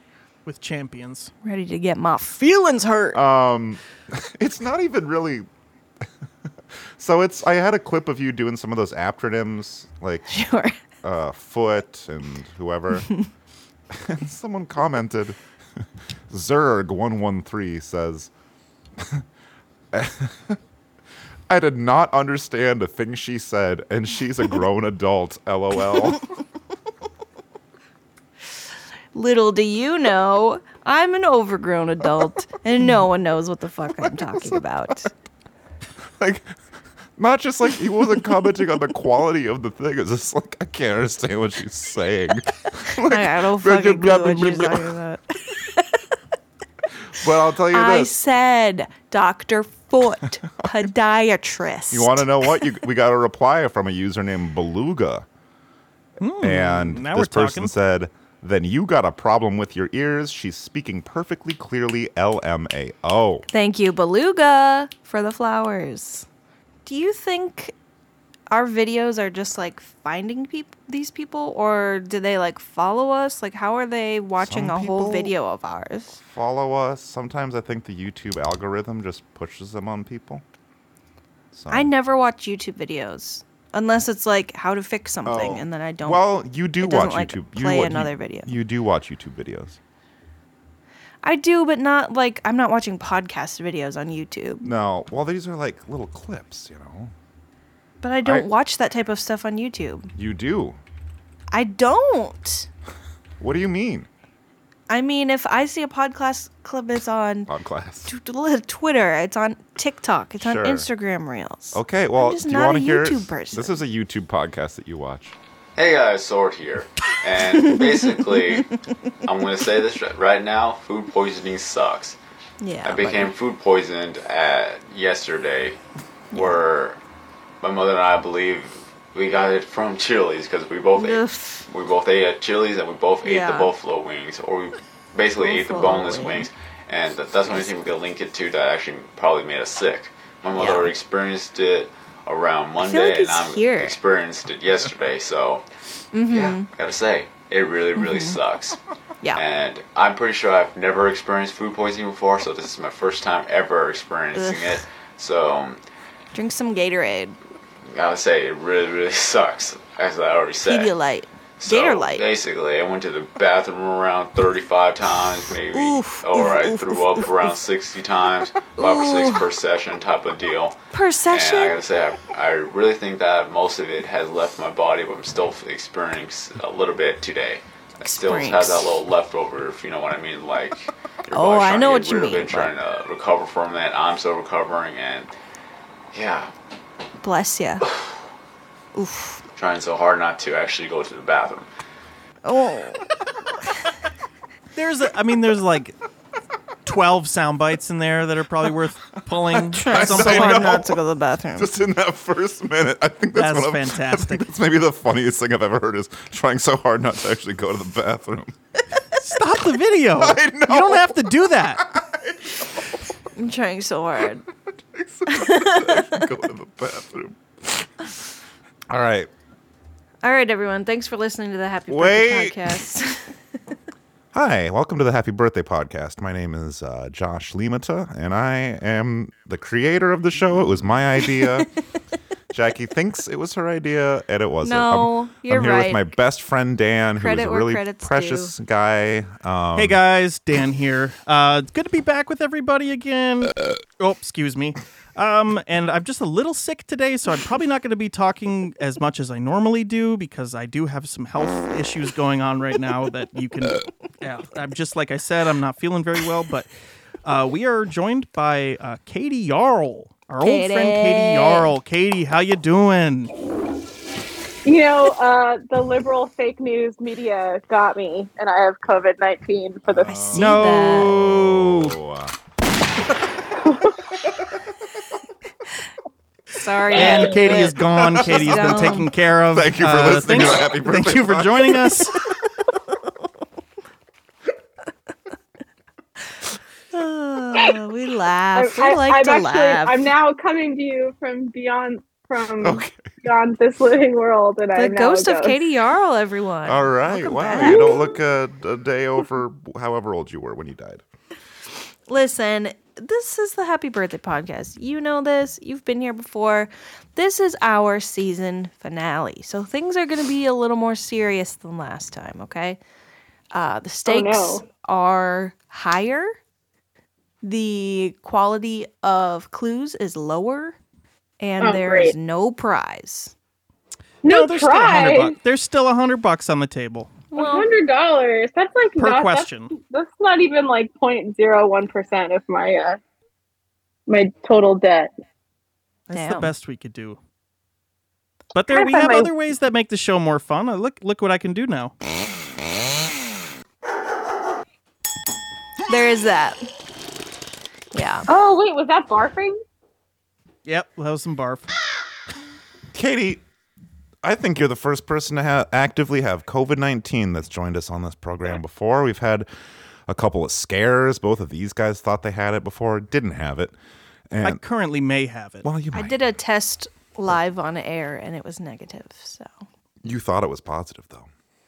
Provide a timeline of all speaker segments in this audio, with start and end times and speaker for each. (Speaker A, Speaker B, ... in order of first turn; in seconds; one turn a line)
Speaker A: 0.4-1.3
Speaker B: 1.4-3.2
Speaker C: 3.1-5.5
Speaker C: 7.0-10.3
Speaker B: 10.3-10.7
Speaker C: 11.0-13.1
Speaker C: 13.9-15.4
Speaker C: 16.3-18.3
Speaker C: 19.0-19.2
Speaker C: 19.9-20.6
Speaker C: 21.5-26.2
Speaker B: 29.1-35.1
Speaker C: 34.0-34.9
Speaker C: 36.2-36.5
Speaker C: 37.2-44.9
Speaker B: 42.9-46.1
Speaker C: 47.1-48.1
Speaker B: 47.7-52.7
Speaker C: 51.9-55.2
Speaker A: 56.2-57.7
Speaker C: 56.4-63.5
Speaker B: 63.5-66.2
Speaker B: 66.8-67.7
Speaker B: 68.5-76.2
Speaker C: 74.4-75.3
Speaker C: 76.2-80.4
Speaker C: 81.5-81.9
Speaker B: 81.7-86.2
Speaker C: 85.2-89.8
Speaker B: 86.8-88.5
Speaker B: 91.2-94.7
Speaker C: 94.6-97.1
Speaker B: 98.0-100.1
Speaker C: 98.2-98.5
Speaker C: 100.1-100.8
Speaker B: 101.5-102.7
Speaker C: 103.4-104.1
Speaker B: 104.9-107.5
Speaker C: 107.5-108.1
Speaker B: 108.0-113.8
Speaker C: 110.4-110.9
Speaker C: 111.7-115.3
Speaker D: 115.8-118.7
Speaker B: 117.6-118.6
Speaker D: 119.2-122.2
Speaker B: 122.6-123.3
Speaker D: 122.8-125.8
Speaker B: 126.3-126.6
Speaker D: 126.3-127.0
Speaker D: 127.6-145.6
Speaker B: 131.0-131.7
Speaker B: 133.2-133.7
Speaker B: 135.4-136.5
Speaker B: 140.6-140.9
Speaker B: 142.8-144.0
Speaker B: 146.1-146.7
Speaker D: 146.3-148.8
Speaker B: 148.0-148.4
Speaker D: 149.3-155.8
Speaker B: 154.3-154.8
Speaker B: 156.3-157.4
Speaker D: 157.9-160.9
Speaker B: 160.6-162.3
Speaker D: 161.6-170.8
Speaker B: 165.7-167.1
Speaker B: 168.8-169.4
Speaker B: 170.9-171.8
Speaker D: 171.3-185.3
Speaker B: 178.0-178.9
Speaker B: 181.3-182.7
Speaker D: 186.1-186.5
Speaker B: 187.2-187.8
Speaker B: 188.9-189.4
Speaker D: 189.5-191.7
Speaker B: 192.4-193.0
Speaker A: 194.7-196.0
Speaker A: 196.8-200.8
Speaker C: 199.5-201.0
Speaker B: 199.7-201.7
Speaker C: 201.5-208.5
Speaker A: 203.3-204.5
Speaker A: 209.2-211.8
Speaker C: 210.1-212.9
Speaker B: 213.3-214.4
Speaker C: 214.9-217.8
Speaker B: 215.3-216.2
Speaker C: 218.9-219.3
Speaker B: 220.2-223.3
Speaker C: 221.9-222.8
Speaker C: 224.3-231.7
Speaker B: 231.3-231.6
Speaker C: 232.5-240.0
Speaker B: 234.6-236.1
Speaker B: 237.2-238.5
Speaker A: 239.7-256.7
Speaker A: 257.2-263.3
Speaker B: 260.4-261.7
Speaker E: 264.6-270.2
Speaker C: 269.9-272.4
Speaker B: 270.0-271.1
Speaker A: 270.3-272.0
Speaker C: 273.1-273.4
Speaker E: 273.6-273.9
Speaker C: 274.3-274.6
Speaker B: 276.5-279.1
Speaker A: 276.9-282.1
Speaker C: 277.9-282.1
Speaker B: 286.9-290.0
Speaker E: 288.5-295.6
Speaker C: 292.6-293.1
Speaker B: 294.7-298.1
Speaker C: 296.6-301.0
Speaker E: 297.6-298.0
Speaker B: 302.1-312.8
Speaker B: 313.5-316.4
Speaker E: 314.1-314.6
Speaker B: 317.4-320.8
Speaker B: 321.4-323.3
Speaker E: 321.6-322.1
Speaker E: 324.2-325.4
Speaker A: 324.2-327.3
Speaker B: 327.3-327.7
Speaker E: 327.3-333.0
Speaker A: 329.0-329.7
Speaker E: 334.1-335.1
Speaker A: 336.1-337.2
Speaker B: 336.1-336.5
Speaker A: 338.5-341.9
Speaker E: 338.7-339.3
Speaker B: 345.9-346.6
Speaker B: 347.9-348.3
Speaker E: 348.3-349.6
Speaker A: 350.6-351.7
Speaker C: 352.9-353.4
Speaker C: 354.2-359.5
Speaker C: 360.1-363.7
Speaker C: 364.3-364.6
Speaker A: 364.4-365.7
Speaker C: 365.6-366.2
Speaker B: 365.9-369.6
Speaker C: 370.0-371.3